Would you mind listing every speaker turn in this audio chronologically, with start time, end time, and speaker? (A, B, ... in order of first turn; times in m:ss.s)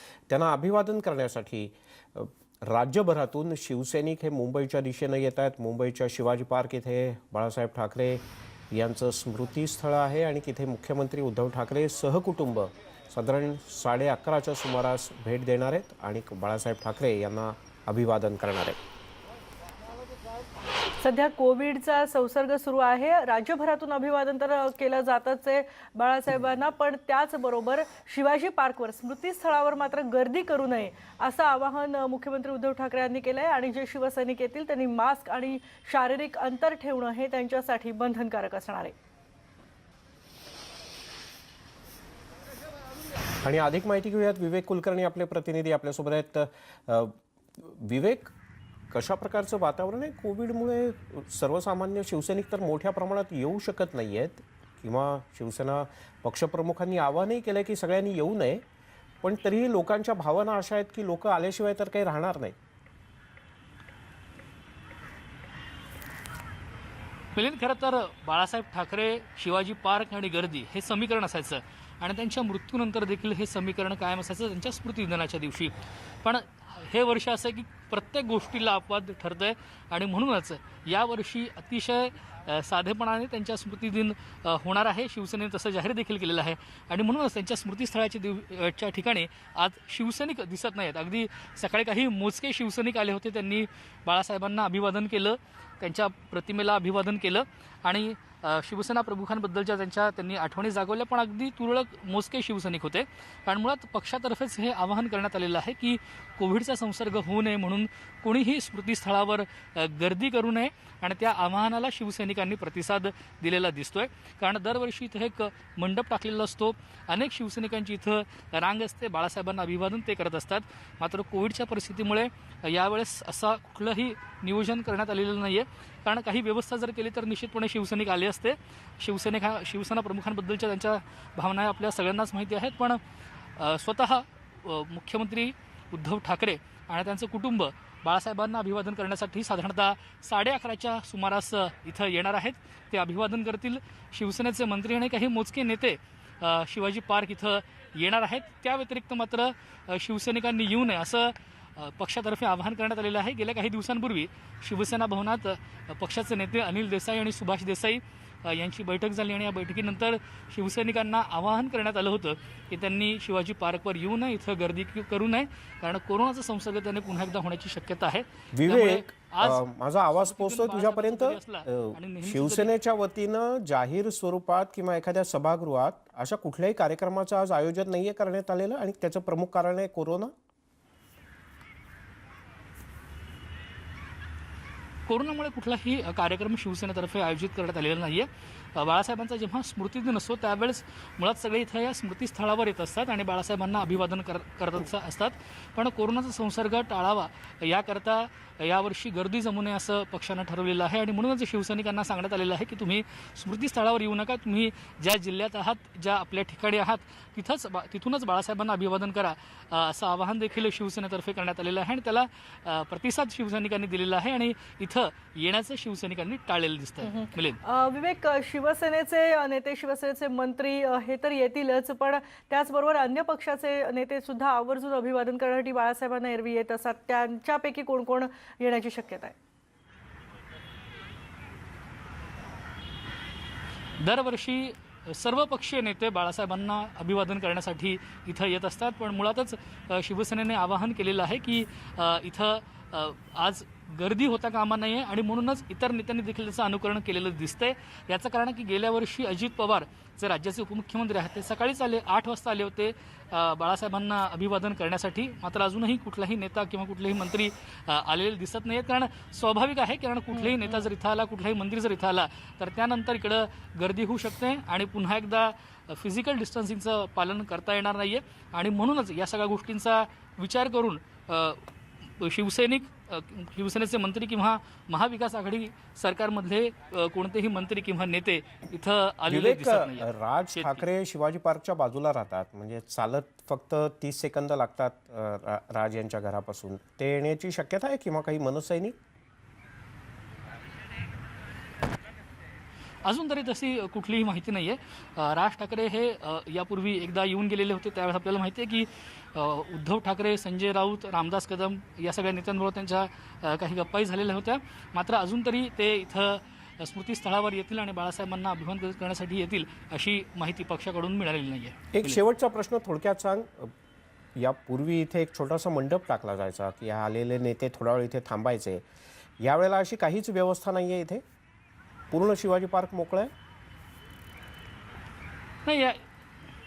0:00.3-0:18.8 A
0:21.0-0:38.9 B
0:43.4-0:48.3 A
0:48.9-0:58.6 A
0:59.2-1:02.6 A
1:07.4-2:13.0 C
2:13.6-2:52.7 C
2:48.6-3:00.3 A
3:05.1-3:37.6 C
3:37.0-3:49.3 B
3:54.0-4:40.9 C
4:20.3-4:20.9 B
4:39.3-4:49.0 A
4:53.0-5:12.2 C
5:11.9-5:13.7 A
5:14.4-5:18.8 A
5:19.4-5:21.2 A
5:22.1-5:23.3 A
5:25.6-5:26.0 C